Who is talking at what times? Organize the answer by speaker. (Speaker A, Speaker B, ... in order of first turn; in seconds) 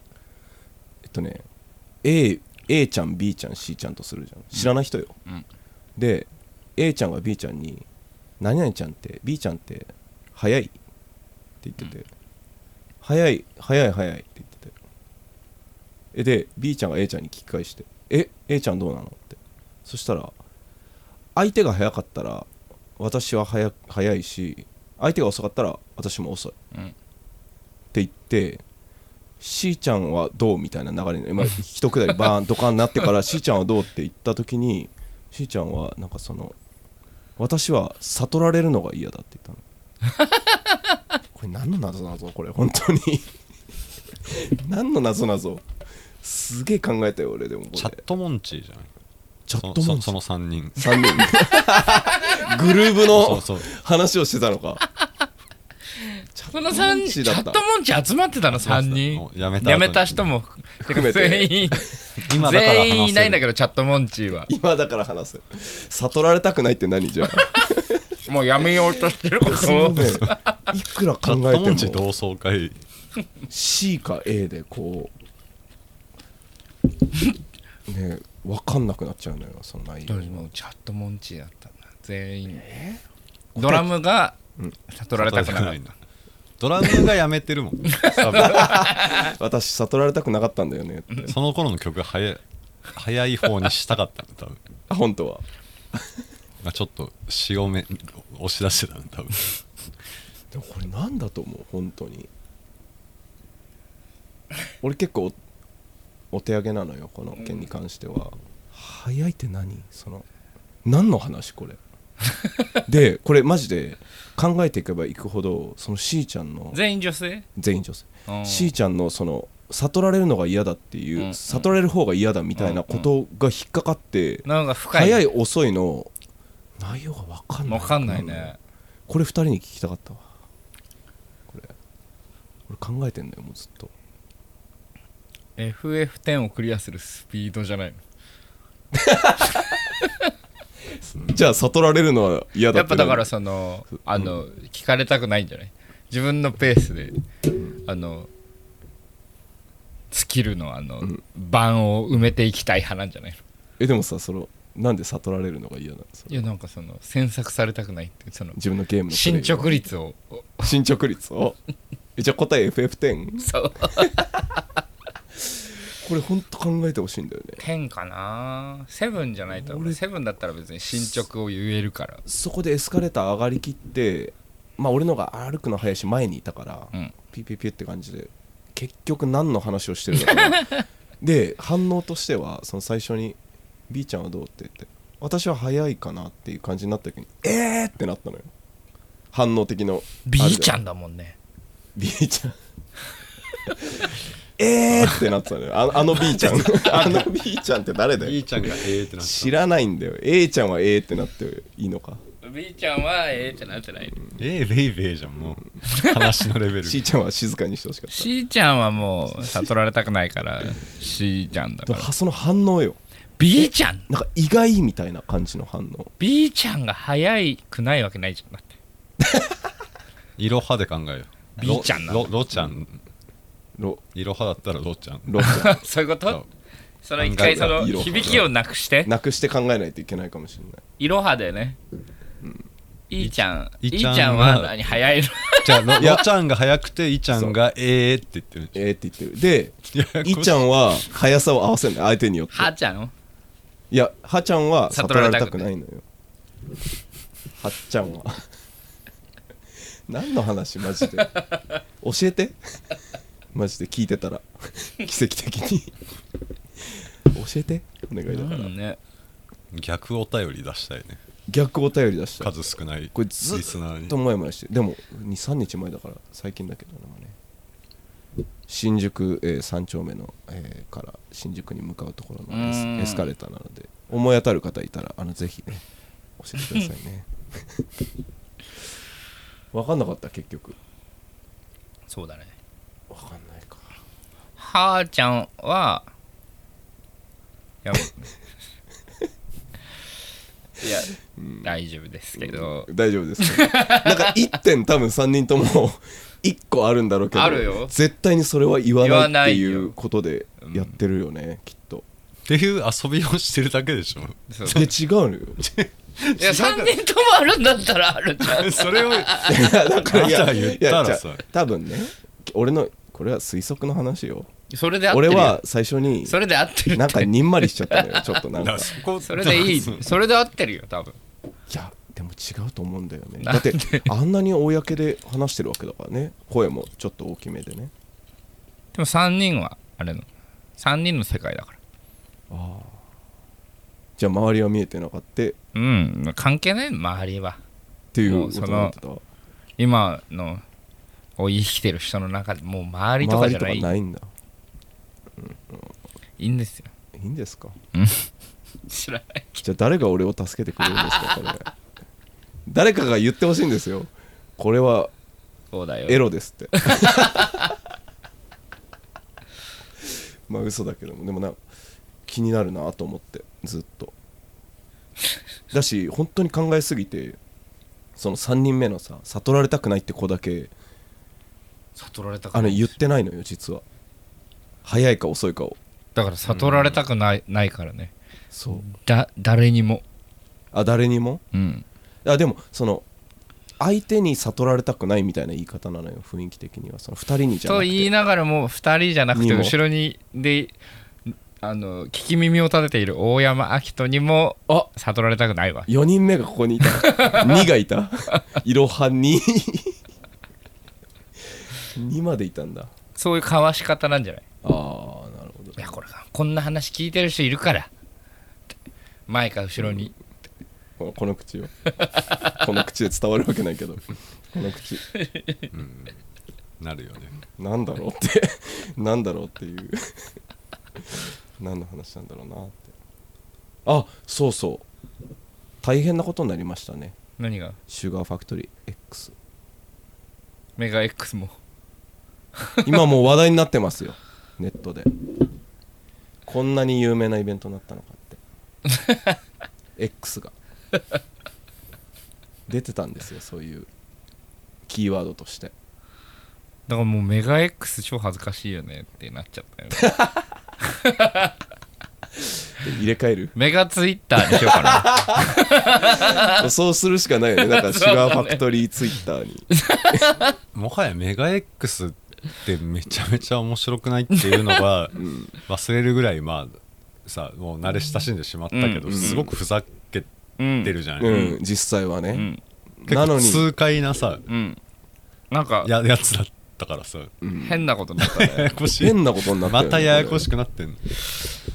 Speaker A: 1.1-1.4, 2.0-5.2, 6.0-7.9, 8.4-10.8, 11.6-12.1, 13.0-14.8, 16.1-20.4, 21.4-26.5, 27.9-28.6, 29.4-36.5, 37.4-39.6, 41.3-43.3, 44.3-45.6, 46.2-48.0, 49.5-50.1, 50.8-54.8, 56.4-57.6, 60.8-61.8, 64.5-68.0, 69.4-72.1, 73.5-75.1, 77.9-80.5, 82.5-83.0, 83.5-83.9, 88.3-91.3, 94.9-96.0, 100.5-102.3, 104.8-105.3, 106.3-110.3, 110.8-111.8, 112.9-116.8, 117.5-126.1, 126.8-128.5, 129.1-130.3, 131.5-131.7, 132.7-133.9, 138.9-139.5, 141.2-143.3, 153.8-156.4, 158.6-159.8, 160.6-161.6, 162.2-163.5, 166.0-167.6, 169.5-170.0, 172.3-180.7, 181.2-183.4, 183.9-188.5, 189.3-190.8, 192.0-192.6, 194.6-202.2, 206.8-208.3, 209.3-209.7, 211.9-213.0, 213.5-216.1, 223.8-224.0, 225.3-225.8, 227.4-228.5, 229.0-230.8, 236.0-236.3, 238.7-242.7, 243.9-246.0, 247.6-248.4, 250.1-251.4, 252.0-252.6, 253.5-255.9, 257.3-258.7, 261.5-267.4, 268.7-275.8, 276.4-277.3, 279.7-280.8, 283.1-284.0, 291.4-291.7, 292.4-302.1, 304.6-305.6, 309.4-314.5, 315.1-316.4, 316.9-318.9, 321.7-327.9, 332.5-333.0, 334.2-335.6, 338.1-339.2, 343.2-344.3, 345.4-345.9, 347.2-347.8, 349.6-351.7, 352.7-355.1, 356.1-357.6, 360.5-361.6, 362.3-364.1, 365.7-367.4, 368.2-370.7, 372.5-373.8, 374.8-375.8, 378.5-378.9, 380.7-381.4, 382.2-383.1, 383.8-388.1, 389.3-389.8, 395.9-400.0, 401.9-402.9, 404.6-406.0, 411.0-411.9, 412.4-415.1, 417.6-420.3, 421.6-422.9, 423.9-424.9, 425.8-427.2, 427.9-429.3, 432.9-435.1, 436.5-438.4, 440.0-440.5, 442.7-443.9, 444.9-445.7, 452.8-453.6, 454.6-455.4, 456.5-460.2, 465.2-465.5, 469.1-469.4, 471.2-472.5, 473.0-473.7, 477.4-477.9, 479.0-480.5
Speaker B: 47.7-48.9, 49.6-51.3, 53.1-53.7, 58.5-60.3, 62.2-63.4, 71.2-72.8, 85.2-86.0, 86.6-88.7, 91.2-92.4, 92.9-94.6, 96.6-99.6, 198.2-199.6, 204.4-207.0, 220.4-223.0, 224.2-225.7, 227.2-227.8, 233.2-234.8, 235.6-238.8, 239.9-240.7, 259.7-261.2, 262.4-264.2, 302.5-304.9, 305.6-306.9, 308.4-311.4, 318.6-320.1, 376.5-377.0, 415.7-416.2, 416.8-417.4, 460.7-471.6, 473.1-474.4, 475.8-477.3, 478.2-481.1
Speaker C: 56.5-64.5, 68.3-70.4, 80.1-82.7, 83.6-84.4, 84.9-85.9, 88.1-89.3, 107.4-107.7, 116.7-117.5, 118.3-118.7, 121.2-121.7, 122.6-123.1, 124.5-125.2, 127.7-128.6, 135.6-138.0, 142.7-147.2, 147.8-148.3, 150.1-153.4, 156.3-158.6, 159.1-160.8, 163.4-164.3, 167.6-172.2, 180.2-180.8, 190.2-191.4, 202.4-204.2, 205.8-206.2, 208.1-212.1, 213.4-214.1, 216.2-218.8, 221.6-222.3, 225.4-226.4, 227.0-229.1, 231.0-231.8, 233.1-235.9, 242.5-243.1, 244.9-245.7, 258.3-259.0, 272.5-273.3, 282.1-282.6, 284.6-286.1, 287.8-288.3, 290.8-294.3, 297.3-297.9, 299.0-299.9, 300.6-300.9, 304.5-304.9, 306.4-309.6, 314.7-315.6, 316.2-318.4, 319.2-321.2, 323.4-324.1, 328.9-330.3, 330.8-331.8, 335.7-337.6, 338.2-339.0, 339.8-340.6, 341.4-343.9, 346.4-346.9, 347.9-348.3, 348.9-349.6, 350.9-351.4, 355.7-356.2, 356.8-357.3, 372.0-373.0, 376.1-378.1, 378.7-380.0, 381.5-381.9, 387.6-395.9, 397.0-397.4, 403.1-404.4, 405.8-407.9, 409.3-410.1, 415.3-415.6, 427.4-427.8, 430.8-431.6, 446.9-450.2, 450.8-451.5, 453.6-456.6, 457.6-458.6, 459.8-460.5, 468.7-469.5, 470.6-471.0, 472.3-472.6, 474.5-474.8, 475.5-475.9, 477.6-478.7